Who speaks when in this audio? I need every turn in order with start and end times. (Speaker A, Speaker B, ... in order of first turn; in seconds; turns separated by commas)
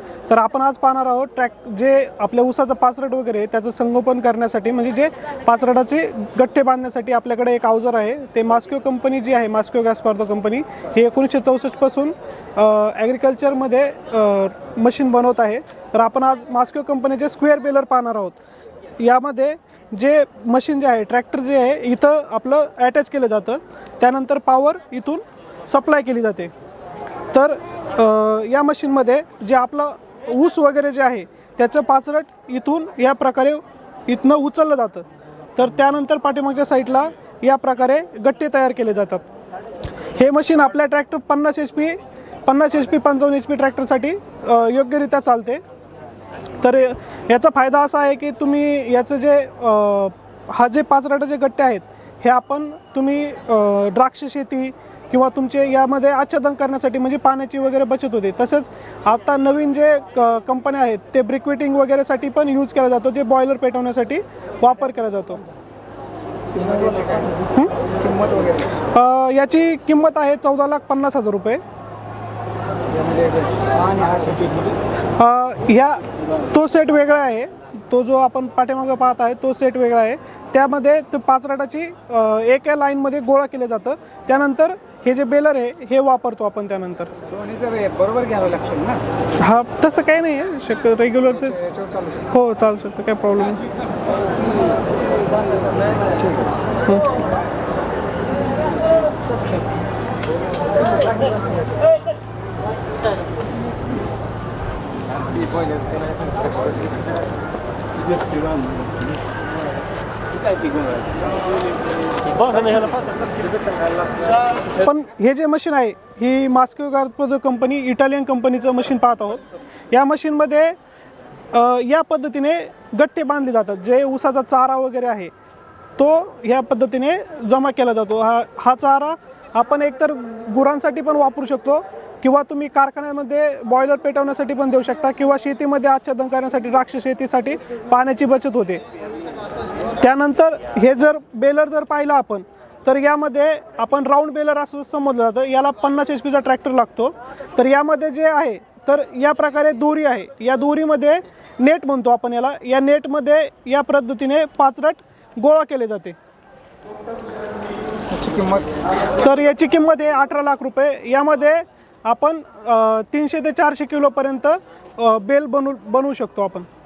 Speaker A: 0.3-18.4, Speaker A: 19.0-26.5, Speaker A: 27.3-39.2, Speaker A: 40.1-45.6, Speaker A: 46.6-65.4, Speaker B: 66.5-68.7, Speaker A: 68.8-71.6, Speaker B: 72.9-74.8, Speaker A: 75.2-87.1, Speaker B: 87.3-89.0, Speaker A: 89.4-91.6, Speaker B: 91.4-92.3, Speaker A: 92.3-93.6, Speaker B: 96.1-96.5, Speaker A: 114.7-120.8, Speaker A: 121.5-125.3, Speaker A: 126.0-138.8, Speaker A: 140.0-156.2, Speaker B: 158.1-158.7, Speaker A: 159.2-166.7